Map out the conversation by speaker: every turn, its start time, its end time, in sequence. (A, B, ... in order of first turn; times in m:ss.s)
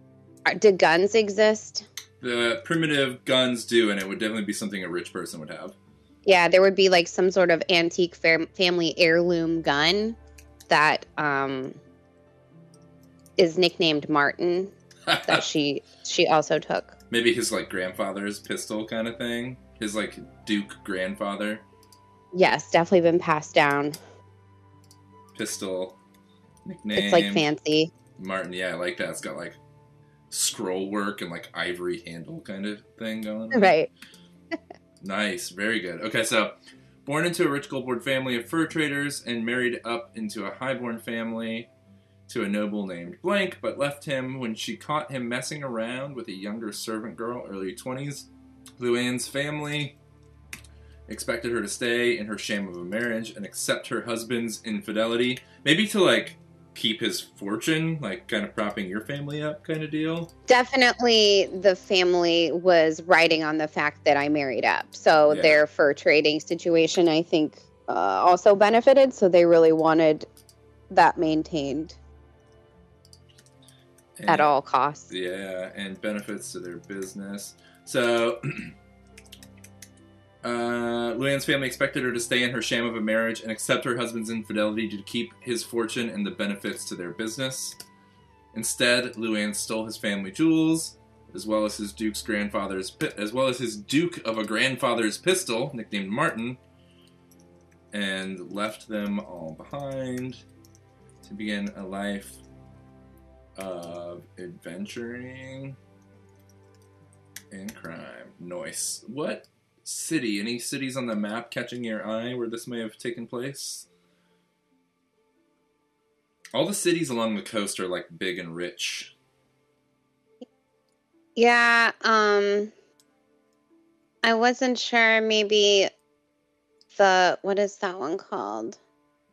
0:00.5-0:01.9 A
0:02.2-0:05.8 B
0:06.3-0:10.2 A
0:10.7-0:11.8 A
0:13.4-0:14.7 A
0:15.1-0:15.5 B
0:15.3-0:17.0 A
0:17.1-0:21.6 B
0:22.3-0:24.0 A
0:25.4-0:26.0 B
0:26.6-0:27.5 B
0:26.9-0:27.9 A
0:28.2-0:29.6 B
0:30.3-0:33.8 B
0:33.5-0:33.9 A
0:35.0-0:41.7 B
0:42.3-0:50.0 B
0:51.1-1:00.3 B
1:00.5-1:10.3 A
1:05.3-1:05.6 B
1:10.9-1:12.0 A
1:14.2-1:14.5 B
1:14.3-1:15.1 A
1:15.1-1:18.7 B
1:20.4-1:27.8 B
1:28.5-1:36.6 B
1:37.9-1:40.4 B
1:41.2-1:42.4 B
1:43.6-1:45.8 B
1:47.5-1:53.9 B
1:56.5-1:59.1 B
2:01.4-2:02.7 A
2:04.2-2:05.9 A
2:06.9-2:08.8 A